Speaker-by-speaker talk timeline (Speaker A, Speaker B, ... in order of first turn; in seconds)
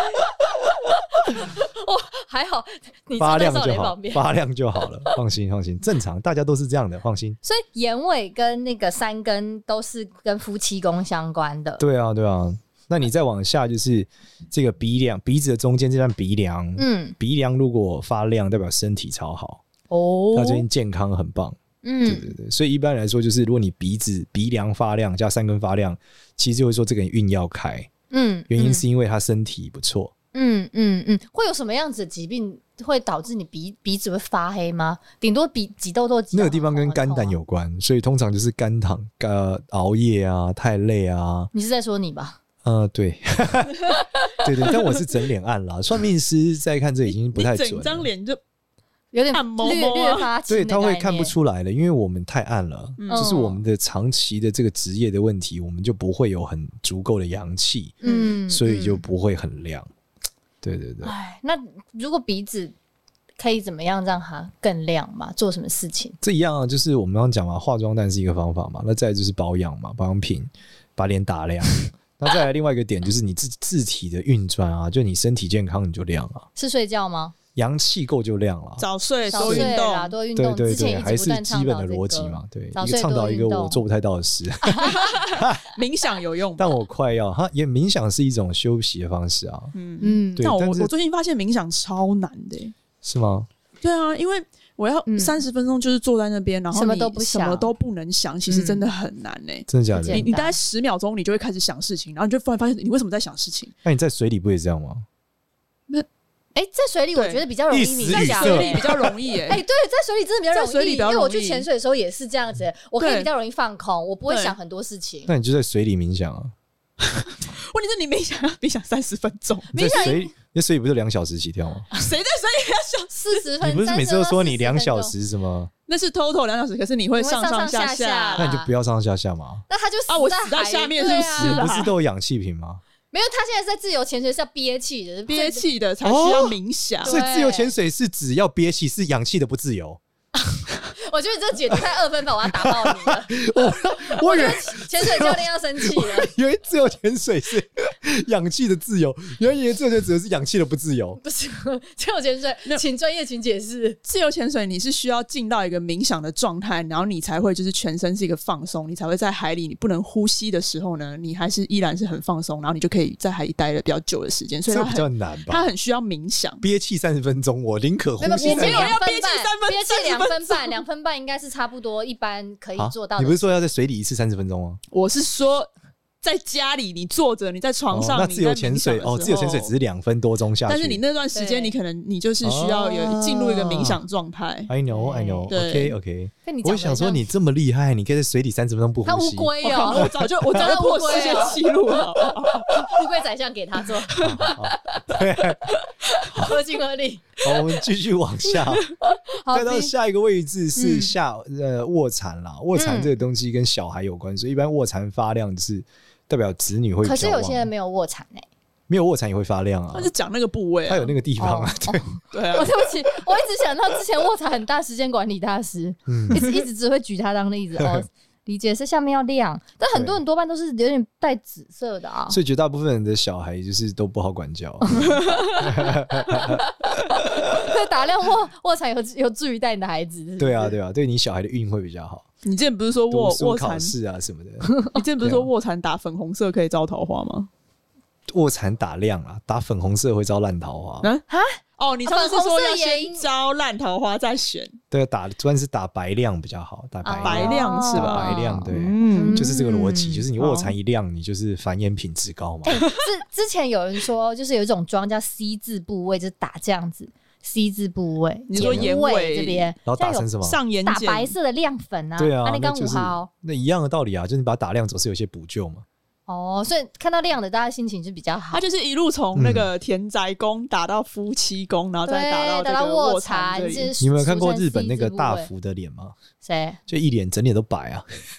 Speaker A: 1.0-4.3, 7.4-11.8, 16.8-17.1, 19.9-20.6, 21.8-22.3, 28.1-28.8, 30.3-37.4, 41.5-42.4, 44.0-44.4, 49.1-51.3, 53.1-53.6, 58.0-59.0, 61.0-62.7, 63.4-66.2, 76.5-77.3, 79.3-83.8, 90.0-90.5, 95.1-95.4, 96.7-97.7, 98.5-98.9, 99.9-100.6, 106.5-115.3, 119.7-120.3, 123.1-125.1, 127.2-128.7, 129.7-131.7, 133.1-135.6, 137.0-137.7, 140.4-146.3, 151.2-154.0, 168.2-173.5, 181.3-181.7, 183.0-183.8, 184.9-185.5, 186.4-187.3, 189.0-191.6, 192.7-197.8, 198.6-199.9, 200.8-201.1, 202.8-203.1, 207.0-208.5, 211.4-222.4, 224.9-230.8, 241.3-243.2, 247.0-250.3, 252.7-260.3, 260.8-263.3, 266.3-268.6, 272.1-275.5, 276.4-276.8
Speaker B: 3.2-7.4, 11.8-19.6, 20.3-27.9, 28.5-30.1, 36.3-41.5, 42.6-48.1, 50.5-59.9, 60.6-61.1, 66.2-76.5, 77.5-79.7, 80.3-85.6, 86.6-89.7, 90.4-90.9, 93.0-93.5, 99.7-100.2, 103.8-105.0, 107.7-109.1, 115.2-116.5, 119.7-121.9, 123.6-125.7, 128.4-129.6, 131.4-132.8, 136.0-140.0, 142.5-151.2, 164.7-165.7, 166.6-168.9, 172.8-174.8, 177.9-181.0, 182.4-184.0, 184.7-190.7, 194.2-195.7, 197.4-198.9, 199.5-207.7, 208.9-210.1, 210.9-212.1, 216.1-216.5, 217.8-218.1, 219.9-220.2, 222.3-226.7, 230.4-232.2, 233.1-235.5, 238.3-241.1, 244.9-252.8, 258.6-258.9, 259.9-260.6, 262.2-265.8, 269.4-269.7, 274.0-276.1, 276.9-278.1
Speaker C: 47.3-48.4, 49.3-50.3, 53.0-53.3, 58.0-58.4, 78.8-80.1, 84.8-86.7, 89.7-92.7, 93.8-103.7, 107.1-107.4, 108.1-109.6, 110.5-111.7, 113.0-113.3, 114.3-114.5, 117.0-120.2, 121.9-123.5, 125.9-128.6, 130.1-131.9, 135.3-137.2, 154.0-166.6, 168.3-170.8, 174.9-175.7, 176.2-179.7, 180.7-184.7, 185.5-185.9, 189.6-192.9, 194.1-194.5, 209.9-211.1, 212.3-212.7, 225.0-225.5, 232.4-233.9, 234.9-237.5, 241.8-244.8, 247.2-249.4, 250.4-250.7, 252.7-253.0, 258.5-259.7, 260.4-261.3, 268.5-273.9